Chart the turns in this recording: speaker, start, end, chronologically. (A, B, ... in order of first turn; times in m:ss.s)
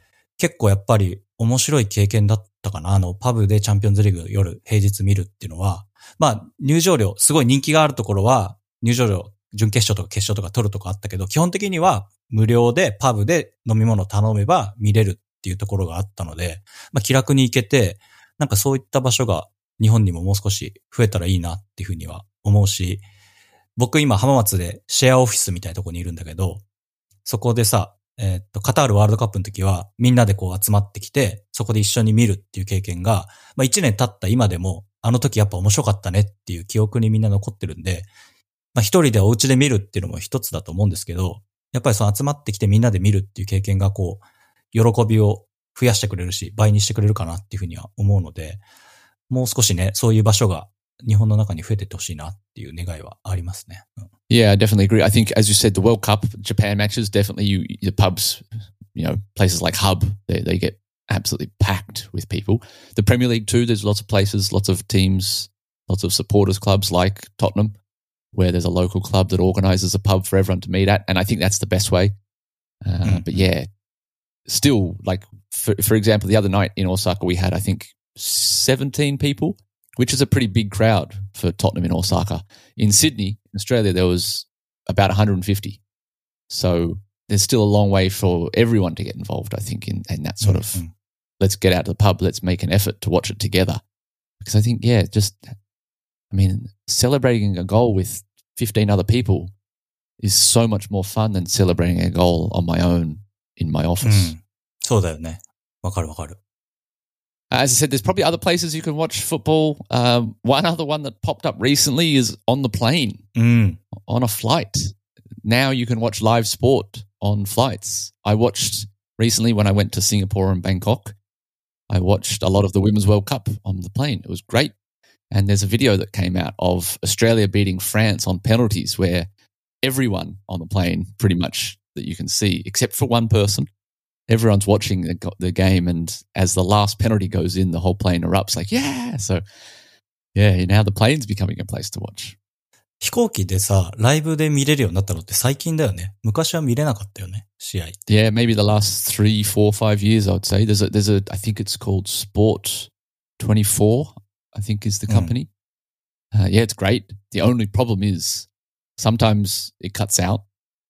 0:00.4-0:23.0 A
0:23.8-0:26.6 A
0:27.2-0:38.1 A
0:38.7-0:48.6 A
0:49.3-0:54.0 A
0:54.3-1:07.7 B
1:08.3-1:12.1 B
1:12.8-1:13.7 B
1:13.0-1:13.5 A
1:14.5-1:25.8 B
1:26.5-1:30.8 B
1:30.4-1:30.9 A
1:31.4-1:33.8 B
1:34.4-1:35.5 B
1:36.3-1:39.5 B
1:40.2-1:44.3 B
1:44.0-1:46.4 A
1:47.5-1:53.2 B
1:53.4-1:53.8 A
1:54.0-2:01.2 B
2:01.9-2:04.7 B
2:05.3-2:09.3 B
2:09.8-2:13.7 B
2:14.3-2:19.4 B
2:20.3-2:22.4 B
2:23.0-2:28.0 A
2:28.1-2:35.5 B
2:35.1-2:35.3 A
2:36.3-2:40.4 B